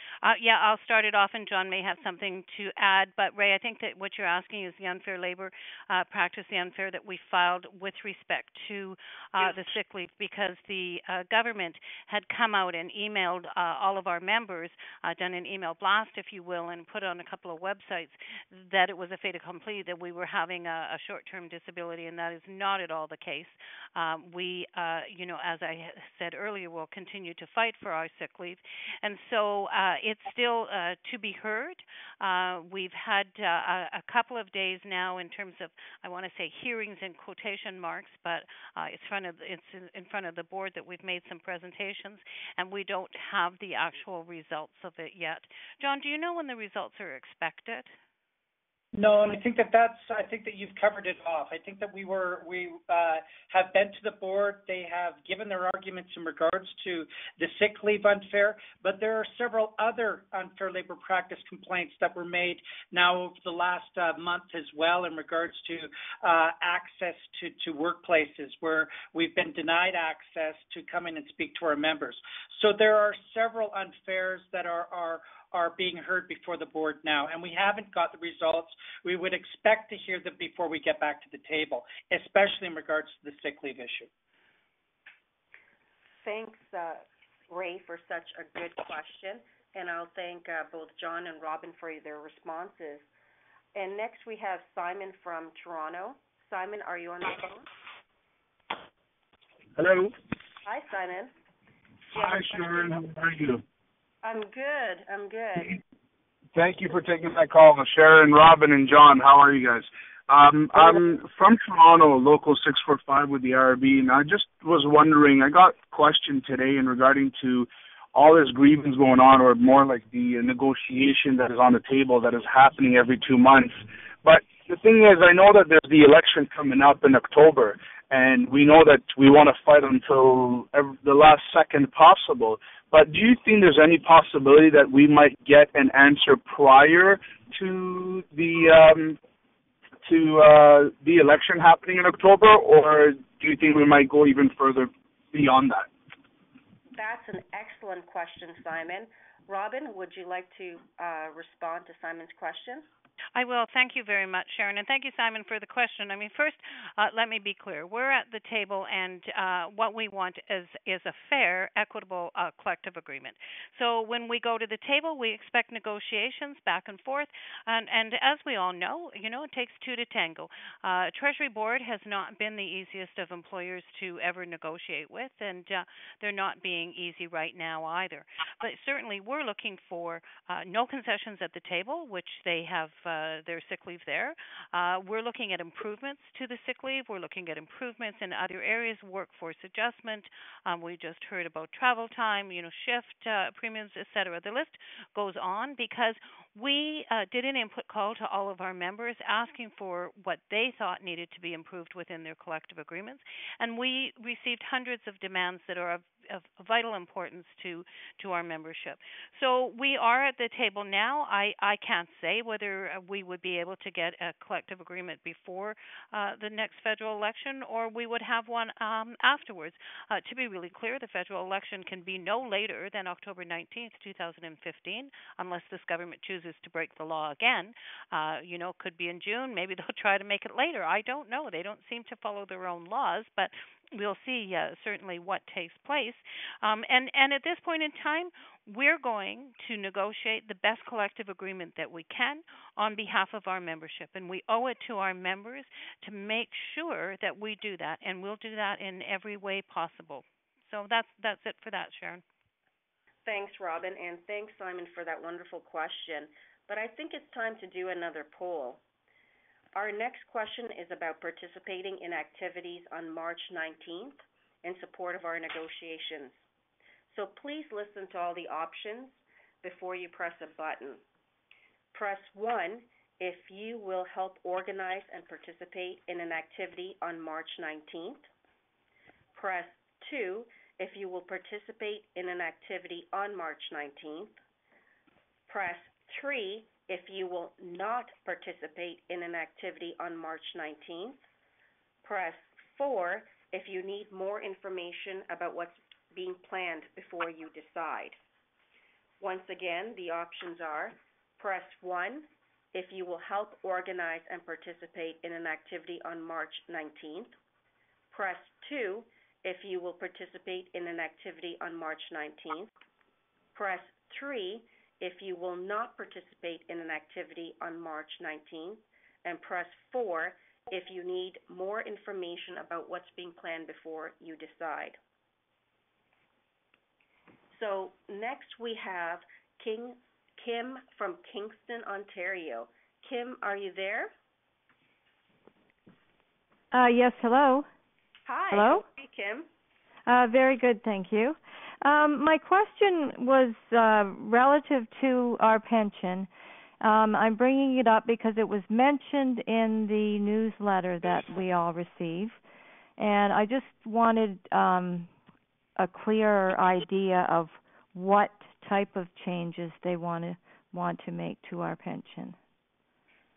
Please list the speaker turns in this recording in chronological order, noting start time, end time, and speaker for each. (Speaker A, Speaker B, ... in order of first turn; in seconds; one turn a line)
Speaker A: 0.2-47.9
Speaker B: 49.0-84.1
Speaker C: 86.2-93.1
Speaker C: 93.8-97.7
Speaker D: 99.8-100.2
Speaker C: 100.7-101.3
Speaker D: 102.1-103.6
Speaker C: 104.2-105.8
Speaker D: 106.5-139.2
Speaker D: 140.0-145.9
Speaker C: 146.9-152.9
Speaker A: 153.3-252.2
Speaker C: 253.3-258.8
Speaker C: 259.8-266.4
Speaker C: 267.1-271.0
Speaker C: 271.9-278.3
Speaker C: 279.3-284.4
Speaker C: 285.5-291.2
Speaker C: 292.0-298.2
Speaker C: 299.2-307.3
Speaker C: 308.1-312.7
Speaker C: 313.5-325.0
Speaker C: 327.5-334.1
Speaker E: 336.7-337.7
Speaker C: 338.3-339.5
Speaker E: 338.5-338.9
Speaker E: 340.1-346.3
Speaker E: 346.8-352.4
Speaker E: 353.0-355.1
Speaker E: 355.8-362.4